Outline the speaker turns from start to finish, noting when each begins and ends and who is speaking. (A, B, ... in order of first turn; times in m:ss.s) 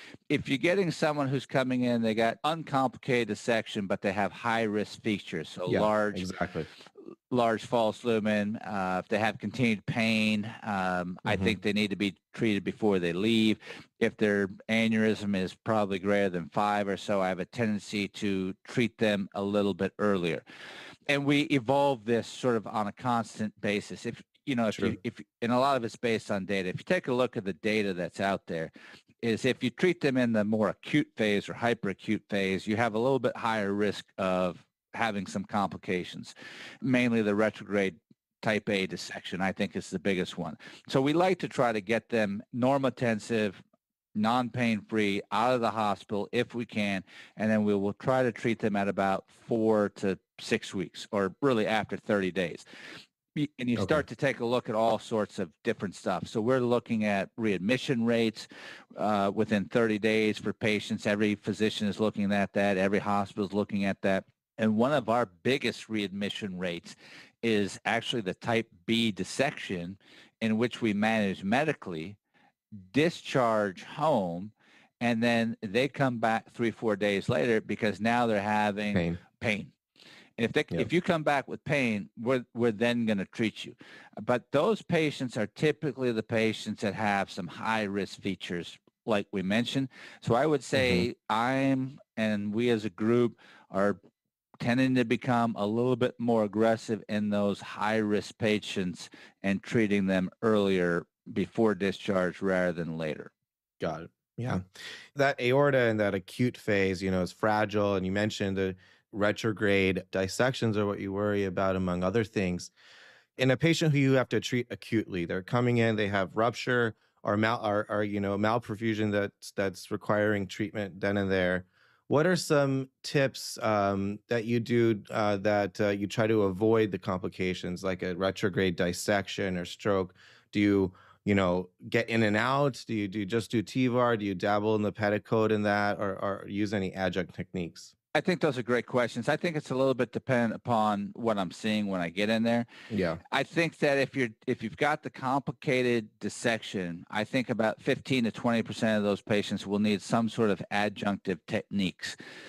0:00.3-0:06.2 A
0:05.7-0:06.7 B
0:07.3-0:20.4 A
0:11.2-0:11.6 B
0:21.1-0:43.6 A
0:44.2-0:52.6 A
0:53.3-1:12.2 A
0:53.8-0:54.0 B
1:12.9-1:19.7 A
1:18.9-1:19.2 B
1:20.4-1:34.0 A
1:30.8-1:31.0 B
1:34.6-1:43.3 A
1:43.8-1:44.6 B
1:45.1-1:52.7 B
1:53.4-2:17.9 B
2:18.1-2:22.7 A
2:22.9-2:23.2 B
2:23.3-2:32.2 A